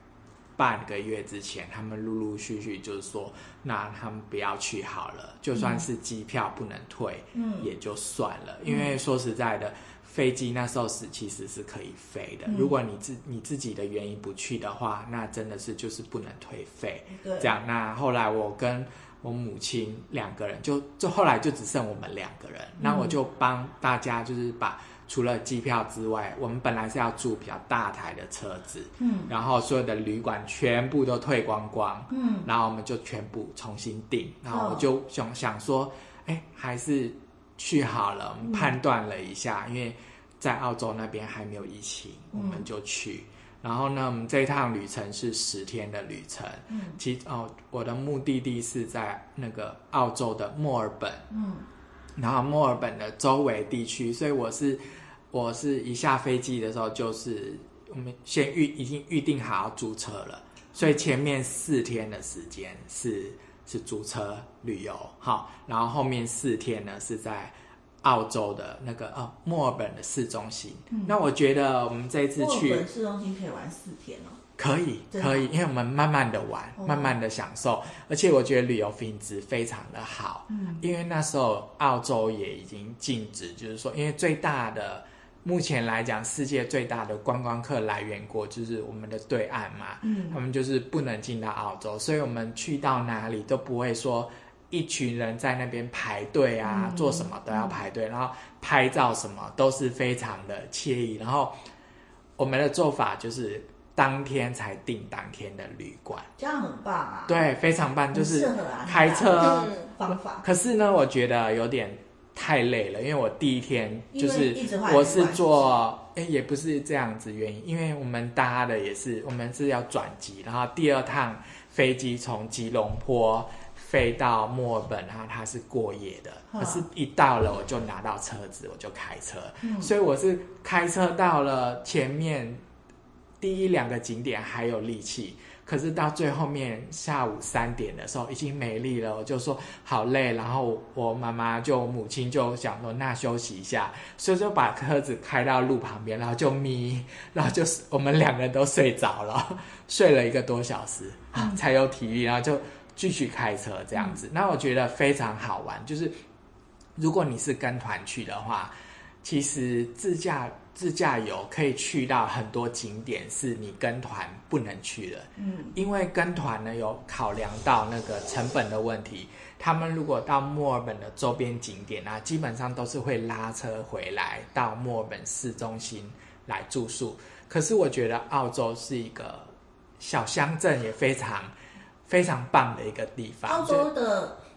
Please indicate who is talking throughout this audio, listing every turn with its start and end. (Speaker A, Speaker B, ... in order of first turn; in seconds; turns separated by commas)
Speaker A: 0.6-51.3, Speaker B: 5.5-5.8, Speaker B: 7.3-7.7, Speaker B: 8.7-8.9, Speaker B: 12.5-12.7, Speaker B: 17.1-17.5, Speaker B: 22.8-23.1, Speaker B: 29.0-29.3, Speaker B: 32.1-32.5, Speaker B: 34.5-34.9, Speaker B: 38.5-38.7, Speaker B: 42.3-42.6, Speaker B: 46.7-47.0, Speaker B: 51.3-51.6, Speaker A: 52.1-72.8, Speaker B: 70.9-71.2, Speaker B: 72.4-74.4, Speaker A: 74.6-101.5, Speaker B: 75.1-75.5, Speaker B: 76.8-77.1, Speaker B: 80.5-80.8, Speaker B: 90.0-90.4, Speaker B: 96.7-97.8, Speaker A: 102.4-106.3, Speaker B: 106.4-107.5, Speaker A: 107.3-132.6, Speaker B: 108.1-110.4, Speaker B: 114.1-115.7, Speaker B: 126.5-126.8, Speaker B: 129.6-129.9, Speaker A: 133.4-156.2, Speaker A: 156.9-158.7, Speaker A: 159.2-181.5, Speaker B: 165.4-165.8, Speaker A: 182.1-183.9, Speaker B: 183.4-184.4